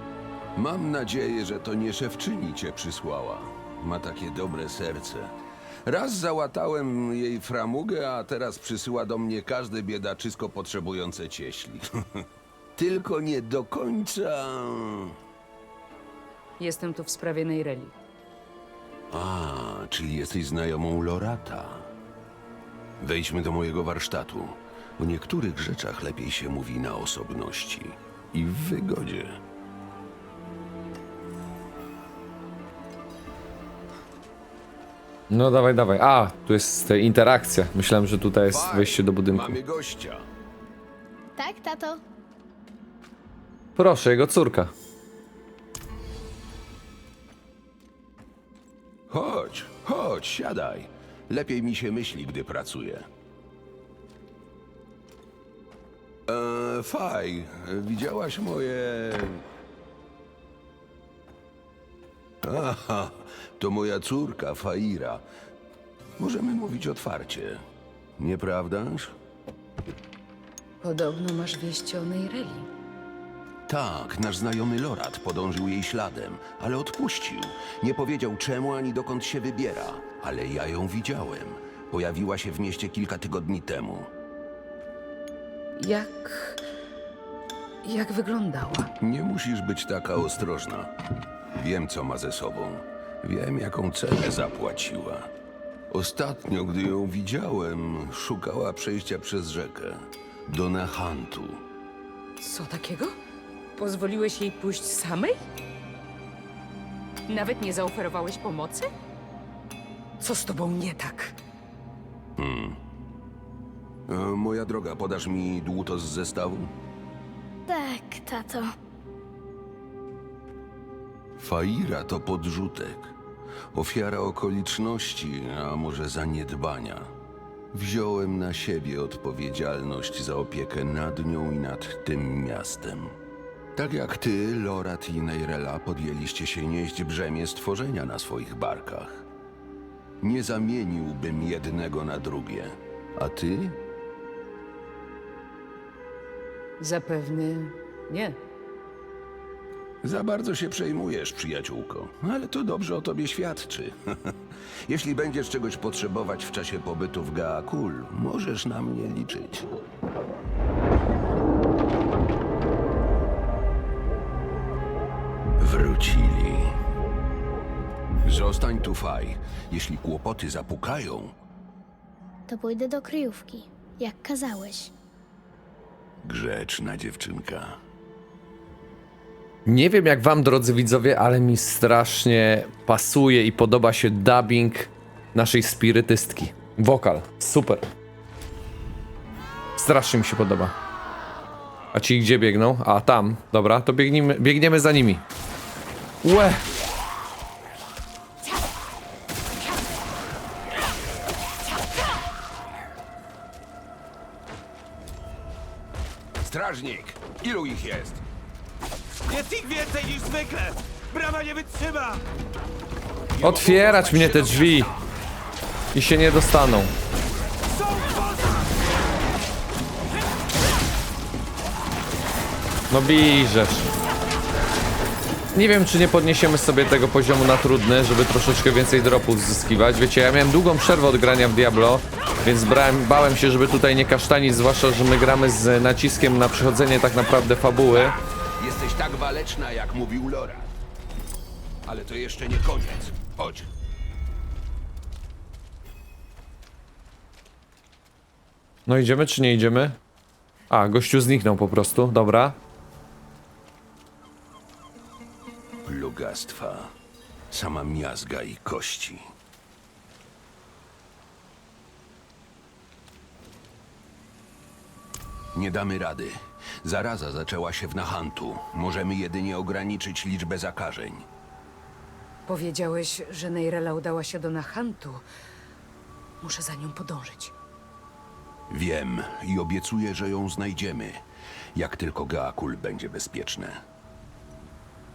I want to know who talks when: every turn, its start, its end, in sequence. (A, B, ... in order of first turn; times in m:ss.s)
0:00.6-0:05.3 A
0:05.8-0:12.2 A
0:12.8-0:15.2 A
0:16.6-0:17.9 B
0:19.1-0:21.9 A
0:23.0-0:29.4 A
0:35.3-0:39.6 C
0:38.5-0:40.3 A
0:41.4-0:42.0 D
0:43.8-0:44.7 C
0:49.1-0:53.1 A
0:56.3-0:59.4 A
1:02.4-1:05.2 A
1:06.2-1:07.6 A
1:08.2-1:09.1 A
1:10.8-1:12.7 B
1:13.7-1:24.1 A
1:25.8-1:26.6 B
1:27.8-1:28.9 B
1:29.0-1:30.9 A
1:31.6-1:35.3 A
1:35.9-1:41.6 A
1:42.4-1:43.2 B
1:43.8-1:45.4 B
1:47.3-1:48.9 B
1:50.2-1:51.4 B
1:52.4-1:52.8 A
1:54.1-1:56.7 A
1:57.7-1:58.7 D
2:01.4-2:03.1 A
2:03.7-2:07.1 A
2:07.7-2:13.2 A
2:13.8-2:19.2 A
2:20.2-2:23.8 A
2:26.8-2:28.4 B
2:30.0-2:39.7 A
2:45.6-2:46.8 A
2:48.2-2:51.3 A
2:52.5-2:54.9 D
2:56.2-2:57.8 A
2:59.7-3:07.8 C
3:09.8-3:10.7 C
3:11.9-3:15.2 C
3:16.2-3:16.6 C
3:26.4-3:28.2 A
3:29.3-3:32.2 E
3:33.3-3:35.1 A
3:33.4-3:34.9 C
3:35.9-3:36.9 C
3:37.7-3:38.8 E
3:42.9-3:43.9 C
3:45.5-3:58.2 C
3:58.6-4:00.7 A
4:01.9-4:03.7 A
4:08.9-4:10.0 C
4:10.7-4:12.6 C
4:15.8-4:16.9 A
4:17.5-4:19.2 A
4:25.5-4:31.3 A
4:32.5-4:35.3 B
4:36.4-4:37.5 B
4:38.7-4:41.2 A
4:41.8-4:43.8 A